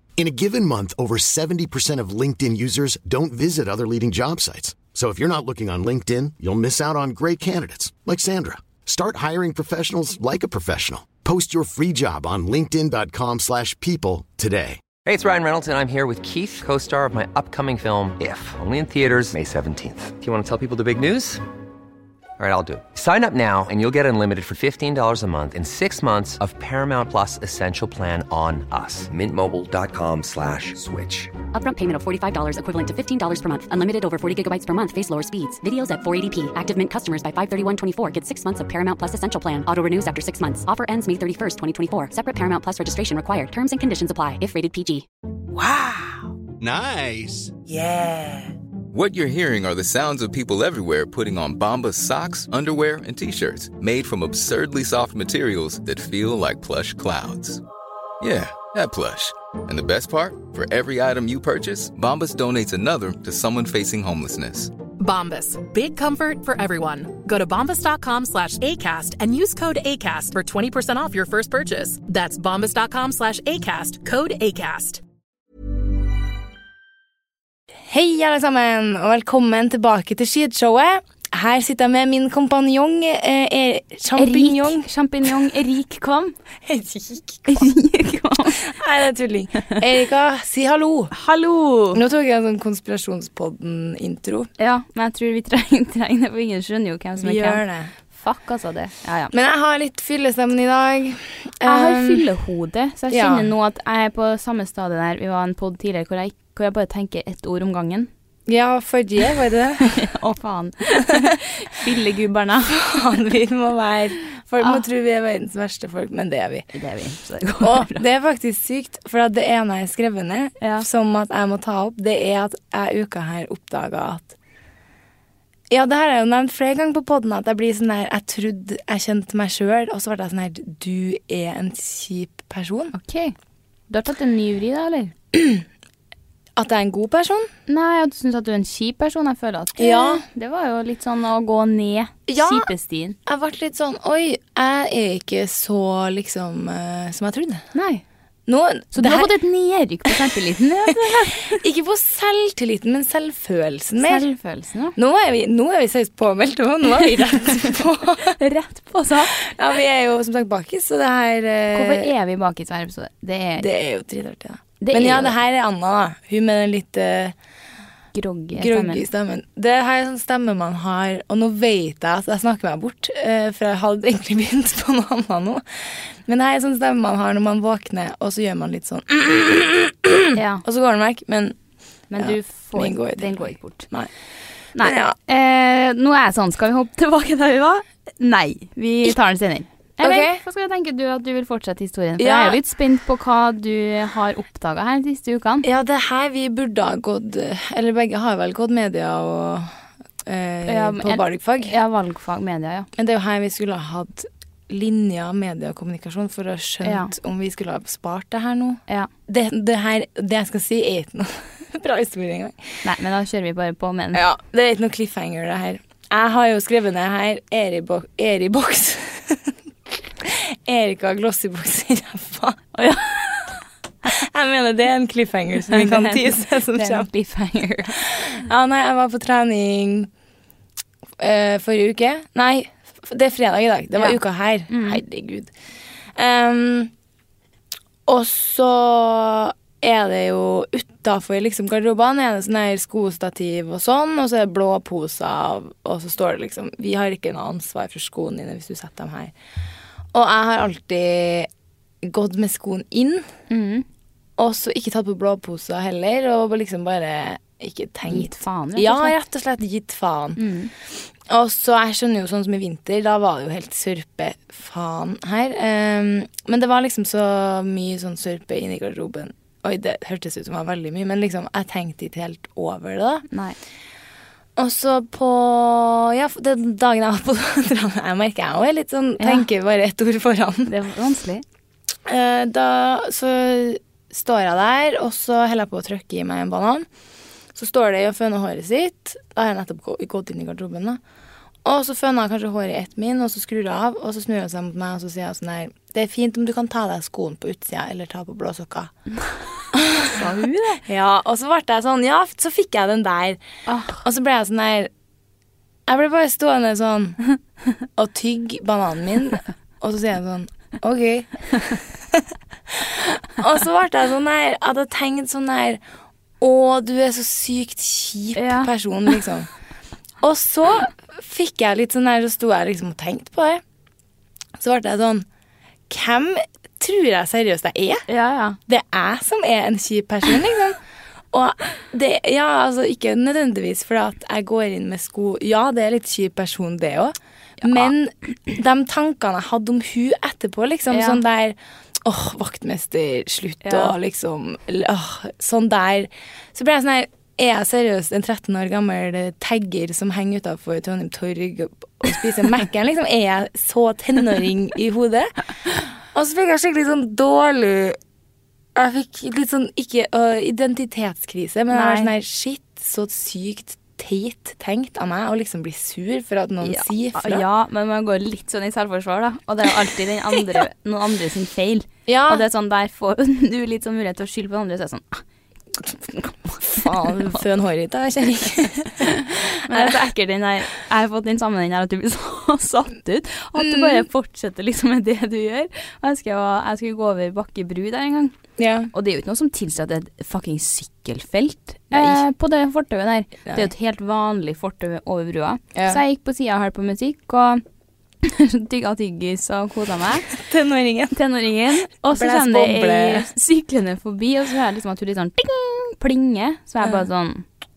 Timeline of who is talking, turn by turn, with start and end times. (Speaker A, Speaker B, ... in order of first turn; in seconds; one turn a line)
Speaker A: 0.2-14.8
Speaker B: 15.0-21.4
Speaker B: 22.4-31.4
Speaker C: 31.5-45.0
Speaker D: 45.5-48.4
Speaker E: 48.9-57.6
Speaker E: 58.2-64.7
Speaker F: 65.0-75.0
Speaker G: 77.9-84.8
Speaker H: 84.2-86.3
Speaker G: 86.7-87.6
Speaker H: 87.5-88.6
Speaker G: 88.6-91.1
Speaker H: 91.1-92.0
Speaker G: 91.9-94.5
Speaker H: 94.6-99.3
Speaker G: 97.2-97.9
Speaker G: 99.3-102.2
Speaker H: 101.6-108.1
Speaker G: 103.1-103.5
Speaker G: 108.5-109.9
Speaker H: 109.9-112.8
Speaker G: 112.7-116.7
Speaker H: 116.7-118.0
Speaker G: 117.6-124.3
Speaker G: 125.7-132.9
Speaker H: 132.9-133.3
Speaker H: 133.9-135.1
Speaker G: 135.3-135.6
Speaker G: 136.6-137.5
Speaker H: 137.7-143.2
Speaker G: 139.8-140.2
Speaker G: 142.3-142.7
Speaker G: 143.2-147.7
Speaker H: 147.7-148.0
Speaker G: 148.5-149.3
Speaker H: 148.9-151.6
Speaker G: 151.4-154.2
Speaker H: 154.0-154.9
Speaker G: 154.9-158.3
Speaker H: 158.2-159.3
Speaker G: 159.4-162.1
Speaker H: 161.7-163.7
Speaker G: 163.6-167.3
Speaker H: 164.8-165.3
Speaker H: 168.1-169.0
Speaker G: 168.6-181.5
Speaker H: 180.3-180.6
Speaker H: 182.1-183.9
Speaker G: 182.2-184.1
Speaker H: 184.8-195.7
Speaker G: 184.8-185.2
Speaker G: 190.0-190.4
Speaker G: 192.2-192.6
Speaker G: 195.6-199.7
Speaker G: 200.2-201.7
Speaker H: 200.7-202.9
Speaker G: 203.0-212.6
Speaker H: 206.8-207.1
Speaker H: 212.8-214.2
Speaker G: 214.1-219.5
Speaker G: 220.2-222.6
Speaker H: 222.7-223.5
Speaker G: 224.1-227.1
Speaker H: 225.7-228.0
Speaker G: 228.0-230.1
Speaker G: 231.2-235.5
Speaker H: 234.7-235.0
Speaker G: 236.2-236.9
Speaker G: 238.1-249.3
Speaker G: 250.1-251.5
Speaker G: 252.0-253.2
Speaker H: 253.5-253.8
Speaker G: 254.4-260.4
Speaker H: 258.1-259.1
Speaker H: 260.4-260.7
Speaker G: 261.3-273.2
Speaker H: 273.3-273.6
Speaker G: 274.6-280.7
Speaker H: 279.2-279.4
Speaker H: 280.7-281.4
Speaker G: 282.1-286.9
Speaker G: 287.5-291.0
Speaker G: 291.6-298.9
Speaker G: 299.7-300.2
Speaker H: 300.0-300.8
Speaker G: 300.9-303.4
Speaker H: 303.7-304.0
Speaker G: 303.9-304.9
Speaker G: 305.9-307.2
Speaker G: 307.9-315.8
Speaker G: 316.4-319.5
Speaker H: 318.4-318.7
Speaker G: 320.2-323.6
Speaker G: 324.6-325.2
Speaker G: 325.9-328.1
Speaker H: 328.1-328.6
Speaker G: 328.7-330.8
Speaker G: 331.3-358.0
Speaker H: 337.6-337.9
Speaker H: 340.9-341.2
Speaker H: 343.6-343.9
Speaker G: 358.7-367.4
Speaker H: 361.7-362.1
Speaker H: 366.6-375.2
Speaker G: 372.1-372.4
Speaker H: 376.1-377.4
Speaker G: 376.7-379.9
Speaker H: 379.1-388.3
Speaker G: 383.6-384.1
Speaker G: 388.6-388.9
Speaker H: 388.9-397.6
Speaker G: 391.9-392.2
Speaker G: 395.7-396.0
Speaker H: 398.2-400.3
Speaker G: 400.3-401.2
Speaker H: 401.1-407.5
Speaker G: 402.1-403.3